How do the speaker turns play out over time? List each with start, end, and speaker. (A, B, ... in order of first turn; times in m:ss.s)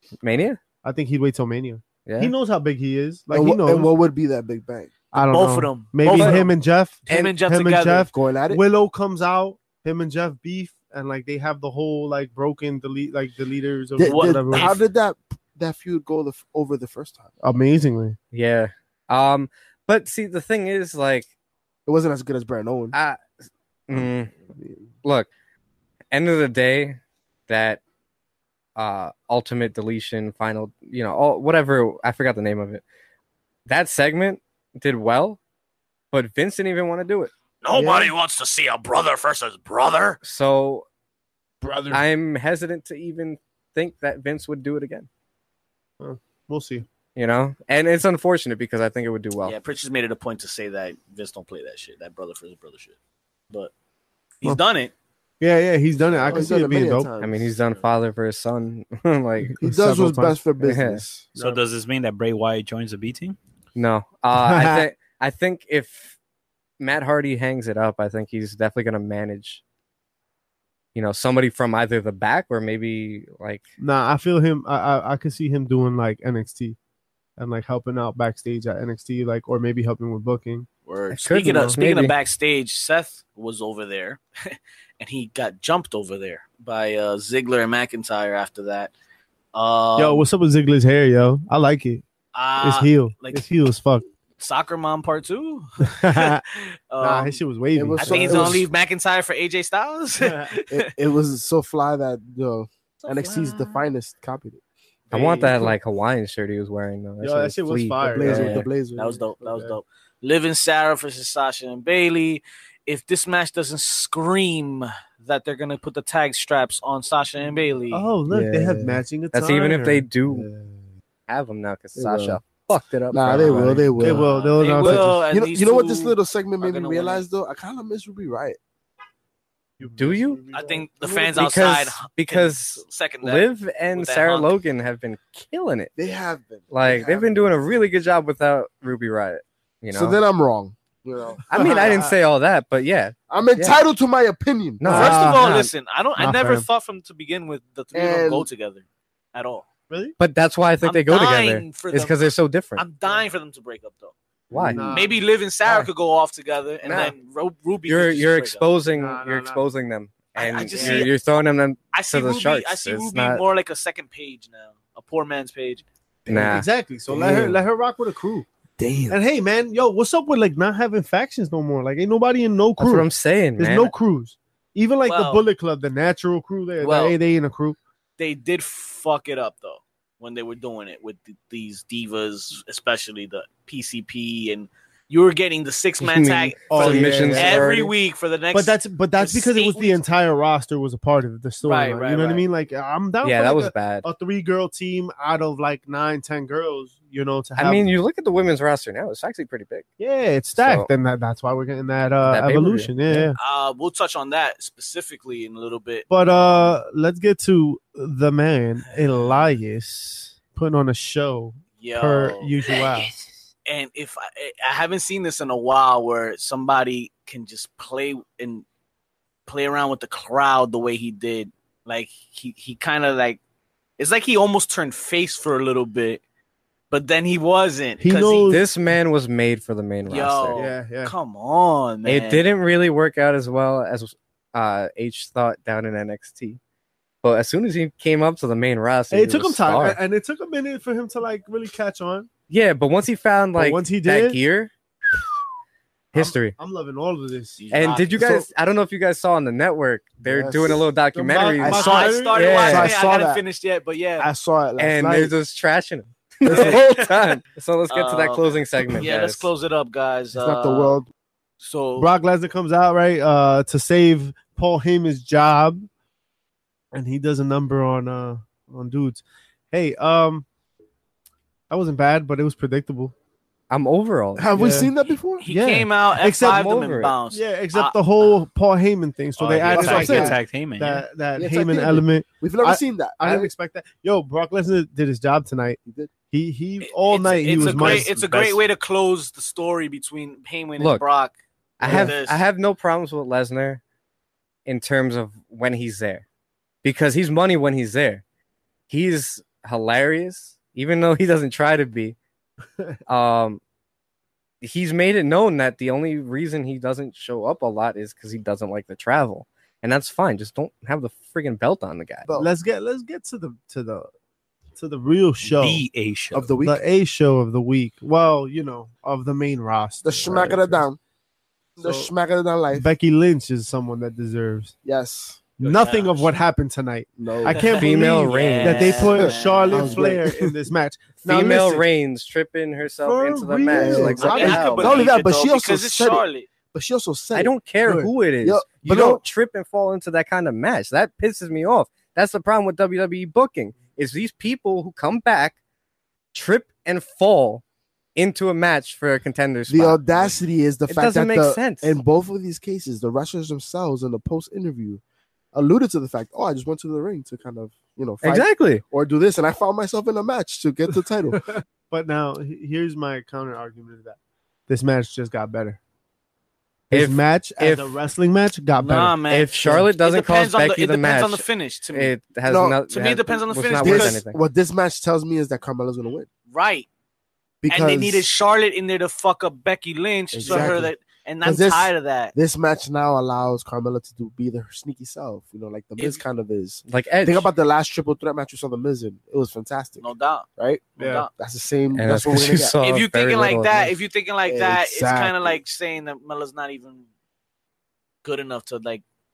0:00.2-0:00.6 A
0:00.8-0:03.9 B
0:02.0-0:02.3 A
0:03.3-0:04.9 C
0:05.1-0:14.7 B
0:05.1-0:06.5 D
0:06.0-0:06.4 A
0:07.0-0:08.1 D
0:08.1-0:08.6 C
0:14.0-0:17.3 C
0:14.0-0:14.8 D
0:17.4-0:18.2 B
0:18.3-0:21.3 A
0:21.8-0:22.9 C
0:22.9-0:23.2 A
0:23.9-0:24.3 A
0:24.0-0:24.9 B
0:25.0-0:25.3 A
0:26.1-0:27.8 A
0:28.8-0:32.8 A
0:33.7-0:35.4 A
0:36.1-0:37.3 A
0:37.6-0:40.2 D
0:37.7-0:38.1 C
0:40.2-0:40.9 A
0:41.6-0:42.0 B
0:41.9-0:45.1 A
0:46.0-0:46.8 B
0:47.1-0:49.6 A
0:49.4-0:53.0 D
0:54.4-0:54.9 D
0:55.4-0:57.1 B
0:56.1-0:56.3 D
0:56.2-0:57.6 C
0:57.2-0:59.6 A
0:59.6-1:00.4 B
0:59.6-1:01.3 C
1:00.6-1:01.0 A
1:01.4-1:01.6 B
1:01.4-1:03.4 E
1:03.8-1:06.1 A
1:04.3-1:04.8 B
1:06.8-1:09.6 A
1:10.9-1:13.6 A
1:13.8-1:16.8 B
1:17.4-1:20.7 B
1:20.8-1:28.9 D
1:21.1-1:22.1 A
1:29.5-1:30.3 D
1:30.0-1:32.0 B
1:32.3-1:33.4 D
1:32.6-1:34.0 B
1:34.4-1:36.4 D
1:35.8-1:36.4 B
1:36.9-1:37.4 D
1:37.0-1:38.7 B
1:37.7-1:38.6 C
1:38.0-1:40.9 D
1:40.2-1:40.6 B
1:40.7-1:44.6 C
1:43.0-1:43.9 D
1:45.1-1:45.5 D
1:45.1-1:48.6 A
1:45.2-1:45.7 B
1:47.2-1:48.6 B
1:48.1-1:49.3 C
1:48.4-1:58.1 D
1:49.4-1:49.8 B
1:57.9-2:00.1 B
1:58.3-1:59.0 C
1:59.3-2:00.5 A
2:00.3-2:00.8 C
2:01.3-2:04.0 A
2:02.0-2:02.4 C
2:03.1-2:08.6 C
2:03.3-2:05.2 B
2:04.0-2:07.3 D
2:09.8-2:11.4 B
2:10.0-2:10.4 A
2:10.5-2:14.5 D
2:11.3-2:15.9 A
2:16.0-2:17.5 C
2:16.7-2:20.2 A
2:19.9-2:22.0 C
2:21.5-2:23.8 A
2:21.5-2:22.1 B
2:23.3-2:25.2 C
2:24.8-2:25.7 A
2:24.9-2:25.5 B
2:24.9-2:29.7 D
2:26.2-2:26.6 B
2:27.9-2:28.5 C
2:29.9-2:30.1 B
2:30.2-2:32.8 A
2:30.8-2:34.1 D
2:34.5-2:34.9 C
2:34.5-2:34.9 A
2:34.7-2:35.9 B
2:34.9-2:38.6 D
2:36.8-2:37.1 A
2:37.8-2:43.4 A
2:38.9-2:39.6 B
2:40.3-2:41.2 D
2:40.7-2:41.1 B
2:41.9-2:45.8 D
2:46.3-2:46.7 A
2:46.3-2:48.4 B
2:46.3-2:46.5 C
2:47.1-2:47.6 C
2:48.8-2:49.2 C
2:49.1-2:57.8 B
2:52.8-2:53.9 A
2:55.0-2:55.4 D
2:56.8-2:57.2 D
2:58.2-3:10.0 D
3:06.0-3:07.9 A
3:06.7-3:07.8 B
3:08.5-3:17.9 B
3:11.6-3:12.4 D
3:13.2-3:14.0 A
3:17.6-3:19.9 A
3:20.0-3:23.4 B
3:20.5-3:20.9 A
3:22.2-3:23.3 A
3:23.4-3:26.8 D
3:26.1-3:33.1 B
3:28.9-3:29.3 D
3:31.8-3:32.9 D
3:33.6-3:38.6 D
3:39.5-3:43.4 D
3:44.0-3:46.2 D
3:46.9-3:48.6 D
3:48.0-3:48.6 B
3:48.5-3:50.6 A
3:50.1-3:52.4 D
3:50.5-3:51.1 B
3:52.0-3:56.6 A
3:57.2-4:00.0 A
3:59.1-4:02.3 B
4:02.5-4:04.7 A
4:03.6-4:04.4 B
4:06.1-4:06.6 A
4:06.1-4:07.7 B
4:07.6-4:08.4 D
4:07.7-4:12.9 A
4:10.2-4:10.9 C
4:11.1-4:12.6 B
4:11.6-4:13.4 C
4:11.7-4:14.3 D
4:14.2-4:15.3 C
4:14.8-4:19.5 A
4:16.4-4:17.1 C
4:16.5-4:17.1 D
4:17.9-4:21.0 D
4:20.3-4:21.1 C
4:21.6-4:22.1 D
4:22.0-4:25.9 B
4:26.9-4:30.4 B
4:31.7-4:33.1 B
4:33.7-4:34.5 A
4:34.4-4:35.4 C
4:34.5-4:34.9 B
4:35.4-4:38.3 D
4:35.4-4:36.7 B
4:36.4-4:37.2 A
4:37.3-4:48.2 B
4:39.4-4:41.0 E
4:39.7-4:40.4 C
4:41.3-4:43.5 C
4:45.8-4:46.1 C
4:46.8-4:52.4 D
4:47.6-4:48.6 E
4:50.8-4:51.0 A
4:51.8-4:53.8 A
4:54.6-4:56.2 A
4:56.8-4:58.2 A
4:58.9-5:02.2 A
5:03.1-5:03.6 A
5:04.6-5:12.3 A
5:12.2-5:12.5 C
5:12.3-5:14.1 B
5:14.8-5:15.8 B
5:15.4-5:16.5 E
5:16.3-5:16.8 C
5:16.6-5:20.8 B
5:20.0-5:21.0 C
5:21.8-5:22.9 C
5:21.8-5:22.1 B
5:22.7-5:24.8 B
5:24.8-5:25.4 C
5:25.6-5:31.8 B
5:25.6-5:26.3 D
5:27.2-5:27.7 C
5:27.5-5:30.1 D
5:27.8-5:29.1 A
5:29.2-5:30.5 C
5:31.2-5:35.0 A
5:33.0-5:34.6 B
5:33.7-5:39.2 C
5:34.2-5:36.5 D
5:37.3-5:45.6 A
5:46.3-5:47.6 A
5:48.2-5:50.3 A
5:49.7-5:55.0 C
5:50.9-5:52.0 A
5:55.5-6:01.4 C
5:58.2-5:58.8 A
6:01.4-6:04.2 B
6:04.7-6:05.8 B
6:06.9-6:09.2 B
6:06.9-6:08.0 A
6:08.8-6:12.1 D
6:09.2-6:14.4 A
6:12.4-6:12.8 C
6:12.9-6:14.2 D
6:13.8-6:16.3 C
6:16.5-6:16.9 D
6:17.6-6:18.3 C
6:17.7-6:22.3 D
6:20.3-6:20.9 C
6:20.4-6:20.8 A
6:21.4-6:32.7 C
6:26.0-6:26.2 D
6:26.9-6:27.5 A
6:30.0-6:31.3 D
6:31.0-6:31.2 B
6:31.9-6:33.9 A
6:32.8-6:37.0 D
6:34.4-6:35.6 C
6:38.2-6:39.0 D